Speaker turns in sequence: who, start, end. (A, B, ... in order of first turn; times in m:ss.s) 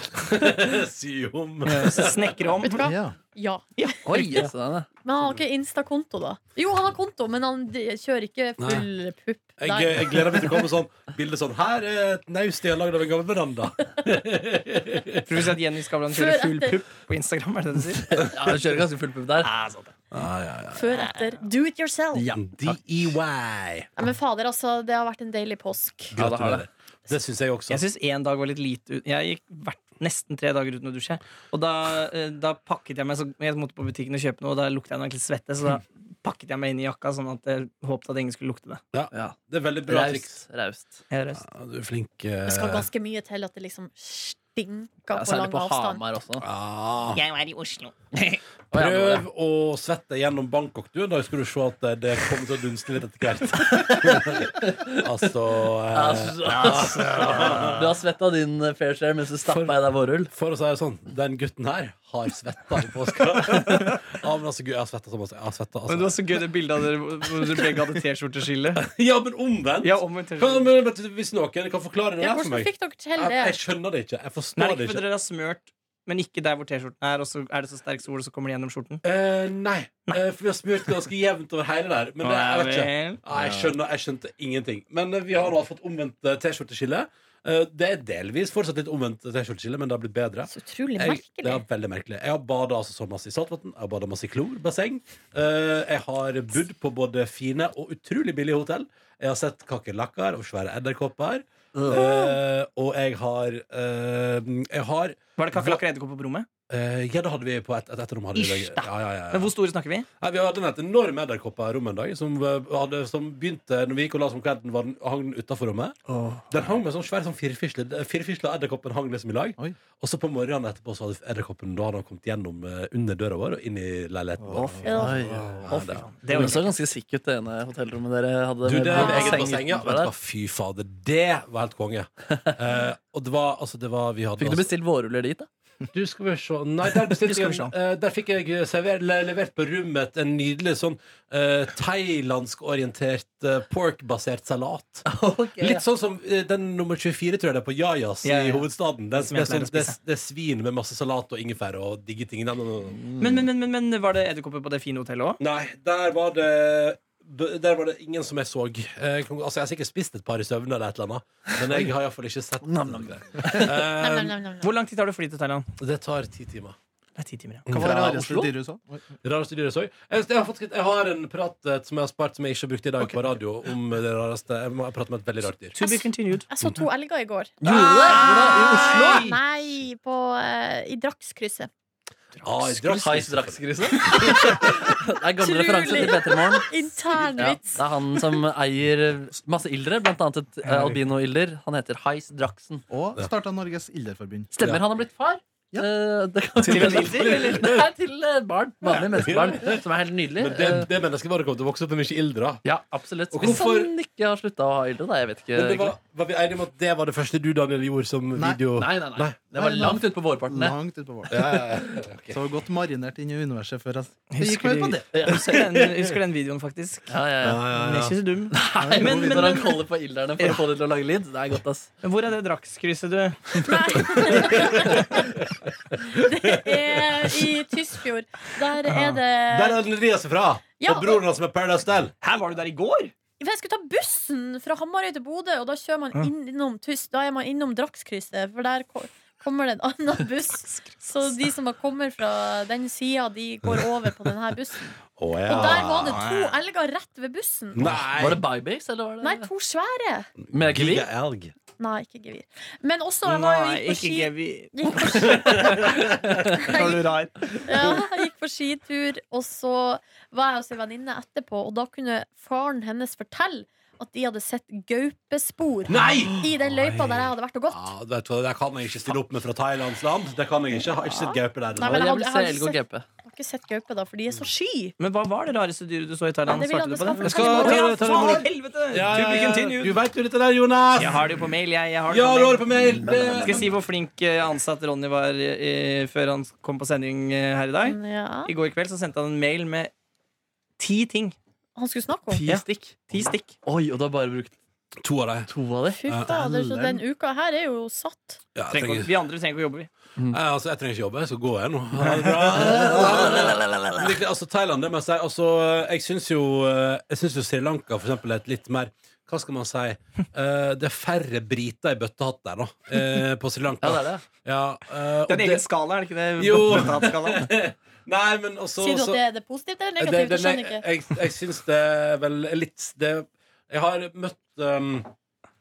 0:00.1-0:02.3 A
0:01.7-0:02.9 B
0:02.6-0:03.9 C
0:02.8-0:03.2 D
0:03.8-0:04.5 B
0:04.0-0:04.9 E
0:05.0-0:10.7 C
0:08.6-0:08.9 A
0:09.6-0:15.4 A
0:15.2-0:18.2 B
0:16.1-0:16.8 C
0:18.2-0:19.5 E
0:19.4-0:20.0 B
0:20.1-0:20.9 A
0:20.7-0:22.3 C
0:21.0-0:21.3 B
0:22.2-0:22.8 E
0:22.3-0:23.9 A
0:24.0-0:26.1 C
0:26.1-0:27.8 A
0:26.1-0:26.7 E
0:27.7-0:38.8 B
0:38.9-0:40.4 A
0:39.1-0:41.0 E
0:41.1-0:41.4 B
0:41.4-0:42.9 A
0:42.5-0:46.0 C
0:45.1-0:46.5 E
0:46.4-0:47.2 A
0:47.1-0:47.9 B
0:48.1-0:49.2 E
0:48.7-0:57.9 A
0:53.6-0:55.3 E
0:55.9-1:00.3 E
0:56.5-0:57.8 B
0:59.5-1:06.2 A
1:05.9-1:08.8 B
1:08.8-1:15.0 A
1:09.8-1:10.7 B
1:12.2-1:13.6 C
1:14.6-1:19.0 B
1:19.0-1:45.8 A
1:22.2-1:23.2 B
1:30.5-1:31.6 C
1:41.8-1:42.2 B
1:45.4-1:46.5 B
1:46.7-1:49.5 A
1:48.4-1:50.1 B
1:50.2-1:56.0 A
1:56.1-1:56.4 B
1:56.5-2:06.6 A
2:04.4-2:05.0 D
2:04.9-2:05.2 C
2:04.9-2:05.8 E
2:05.7-2:06.7 B
2:06.3-2:10.1 E
2:08.6-2:14.7 A
2:09.0-2:09.4 C
2:14.4-2:15.5 E
2:15.9-2:25.1 A
2:17.1-2:17.7 B
2:25.0-2:25.8 E
2:25.6-2:33.2 A
2:28.2-2:30.0 B
2:33.2-2:35.4 B
2:35.4-2:44.3 A
2:42.6-2:43.7 E
2:44.0-2:44.7 C
2:44.6-2:45.7 B
2:45.8-2:46.8 A
2:47.2-2:47.7 B
2:47.7-2:48.0 A
2:47.7-2:48.5 E
2:47.7-2:49.0 D
2:49.2-2:55.8 A
2:55.8-2:56.5 B
2:55.8-3:01.7 C
2:57.6-2:59.4 E
2:57.7-2:59.3 B
3:02.4-3:03.0 B
3:02.4-3:04.9 A
3:02.9-3:06.7 E
3:05.4-3:08.3 C
3:07.3-3:12.8 E
3:10.6-3:11.0 B
3:12.9-3:14.5 D
3:14.5-3:20.9 E
3:16.6-3:17.9 A
3:16.6-3:17.7 B
3:18.9-3:19.9 A
3:20.4-3:22.6 A
3:22.6-3:26.0 E
3:23.3-3:23.9 A
3:25.5-3:29.4 A
3:28.4-3:28.6 D
3:28.8-3:30.8 E
3:29.6-3:31.6 D
3:31.3-3:32.4 A
3:31.4-3:31.6 E
3:32.3-3:35.1 D
3:34.3-3:37.1 B
3:35.3-3:36.1 A
3:37.1-3:37.6 E
3:37.4-3:38.2 A
3:37.7-3:39.8 B
3:38.5-3:41.9 E
3:38.8-3:39.6 D
3:42.0-3:44.3 B
3:43.6-3:45.3 C
3:44.3-3:47.5 A
3:46.0-3:49.8 C
3:49.1-3:52.1 A
3:50.8-3:51.2 C
3:52.2-3:53.1 B
3:53.4-4:07.9 C
4:00.8-4:01.4 B
4:05.2-4:06.3 A
4:05.6-4:06.6 B
4:07.7-4:08.4 A
4:08.0-4:09.5 E
4:09.2-4:10.3 C
4:10.5-4:11.1 E
4:10.6-4:11.5 A
4:11.8-4:27.9 C
4:13.2-4:15.4 B
4:15.1-4:16.7 A
4:16.6-4:17.6 B
4:25.9-4:32.1 A
4:31.0-4:34.9 C
4:31.8-4:33.1 E
4:35.0-4:40.0 B
4:36.5-4:38.4 C
4:37.2-4:41.4 A
4:41.0-4:49.9 B
4:42.1-4:43.7 A
4:47.8-4:48.5 C
4:50.8-4:51.4 B
4:51.8-4:52.4 C
4:52.3-4:53.1 E
4:52.4-4:53.6 B
4:53.6-4:54.6 E
4:55.0-4:55.5 A
4:55.5-4:56.6 E
4:55.9-4:58.4 C
4:56.1-4:56.7 A
4:58.6-4:59.1 A
4:58.7-4:59.9 B
5:00.3-5:15.6 A
5:02.7-5:03.7 E
5:03.5-5:03.8 B
5:13.8-5:14.3 E
5:15.3-5:17.5 B
5:16.4-5:19.2 A
5:18.8-5:20.9 C
5:20.0-5:25.1 A